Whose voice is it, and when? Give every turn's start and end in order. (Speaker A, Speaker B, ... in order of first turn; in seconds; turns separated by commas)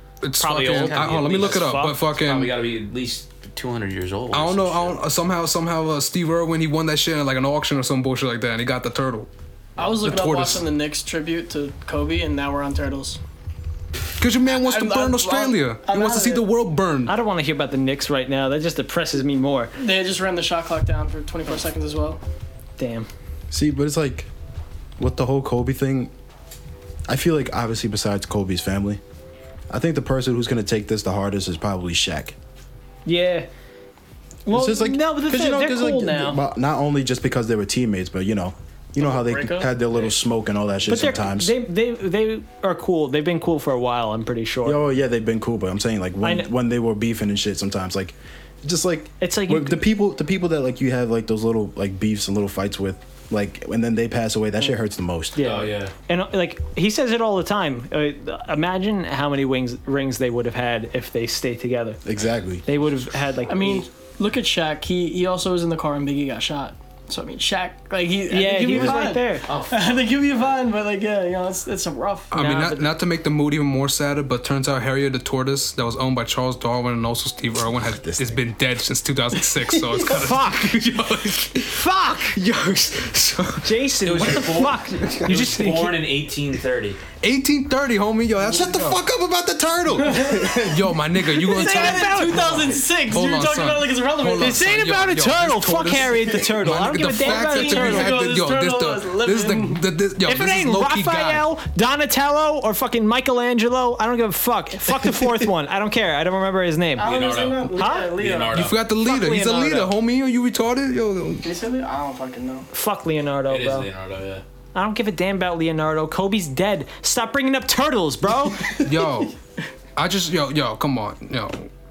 Speaker A: 0.2-2.5, Speaker B: 0.4-2.0, Speaker C: 0.7-5.0, Speaker A: 4.3-9.3, Speaker D: 9.8-13.2, Speaker A: 9.9-10.6, Speaker A: 14.2-17.1, Speaker D: 14.5-16.5, Speaker B: 17.1-19.7, Speaker D: 19.8-22.2, Speaker B: 22.8-23.1, Speaker E: 23.5-24.3, Speaker E: 25.0-26.1, Speaker E: 27.1-29.0, Speaker E: 29.7-32.4, Speaker B: 33.0-33.5, Speaker B: 34.5-36.4, Speaker E: 34.5-41.5, Speaker D: 39.0-40.1, Speaker B: 40.9-44.8, Speaker E: 44.6-55.4, Speaker B: 46.2-46.5, Speaker B: 49.2-49.9, Speaker B: 55.4-62.0, Speaker C: 55.4-55.9, Speaker E: 62.0-62.7, Speaker B: 62.7-63.9, Speaker D: 63.5-72.3, Speaker B: 68.3-69.5, Speaker C: 69.5-70.5, Speaker A: 72.3-83.7, Speaker B: 72.3-72.9, Speaker E: 78.0-78.4, Speaker B: 80.0-81.0, Speaker B: 81.6-82.4, Speaker B: 83.6-86.1, Speaker C: 84.0-87.0, Speaker A: 85.1-85.3, Speaker A: 87.2-89.0, Speaker E: 88.4-90.9, Speaker A: 90.5-101.5, Speaker B: 91.5-92.8, Speaker D: 91.5-94.7, Speaker B: 94.4-98.2, Speaker D: 97.2-99.9, Speaker B: 100.2-107.1, Speaker D: 107.0-108.7, Speaker C: 107.0-108.8, Speaker B: 107.7-108.1, Speaker A: 108.5-111.5, Speaker B: 109.0-109.9, Speaker D: 111.4-112.7, Speaker B: 112.7-113.9, Speaker C: 113.5-114.4, Speaker B: 114.7-118.8, Speaker A: 118.8-119.3, Speaker A: 120.0-121.7